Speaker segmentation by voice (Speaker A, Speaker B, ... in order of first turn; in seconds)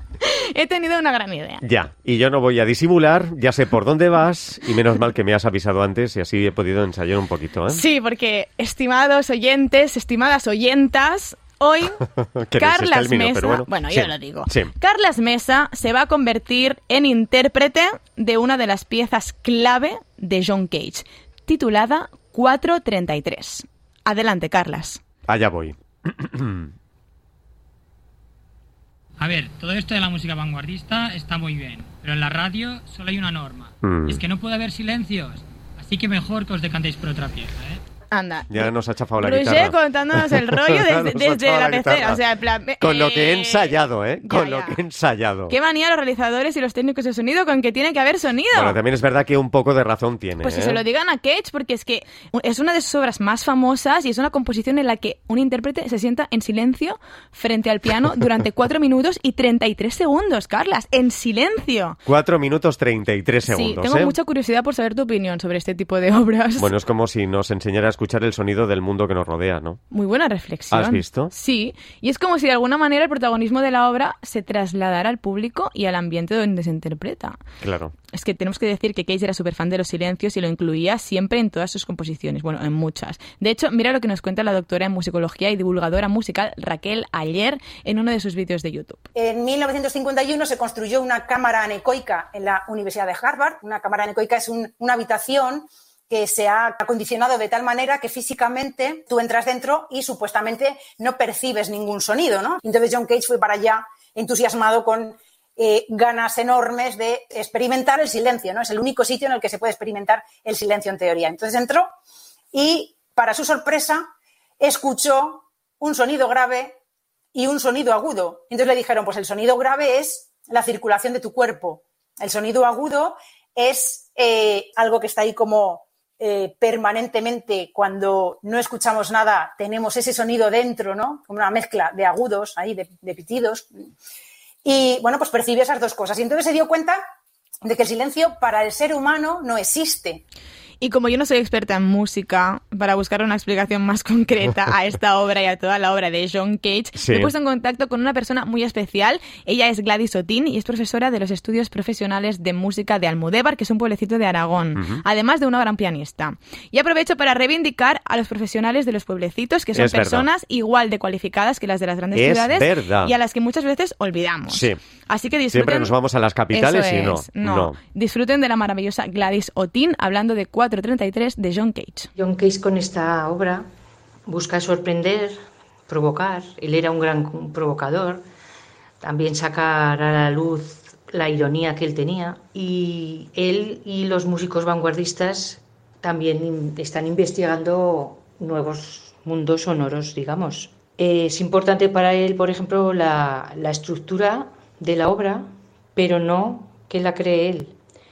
Speaker A: 0.2-1.6, 7.7-12.0, 12.6-25.0, 38.1-44.8, 45.5-48.8, 50.4-62.0, 63.5-66.7, 69.9-77.4, 78.1-89.0, 140.8-165.9, 166.5-172.1
Speaker B: 1.6-7.8, 12.4-14.7, 25.3-26.7, 33.8-34.2, 38.5-42.2, 42.8-45.6, 48.5-50.8, 62.1-64.2, 66.6-69.8, 70.7-71.3, 77.6-77.9, 147.0-147.3, 154.8-155.0, 159.8-160.3, 162.1-163.1, 164.5-164.8, 165.5-167.8
Speaker C: 29.2-37.8
Speaker D: 89.2-111.9, 112.5-114.1, 114.6-116.8, 117.3-133.7, 134.7-137.0, 137.6-140.2
Speaker E: 172.2-173.7, 174.3-175.4, 175.9-178.2, 179.0-197.8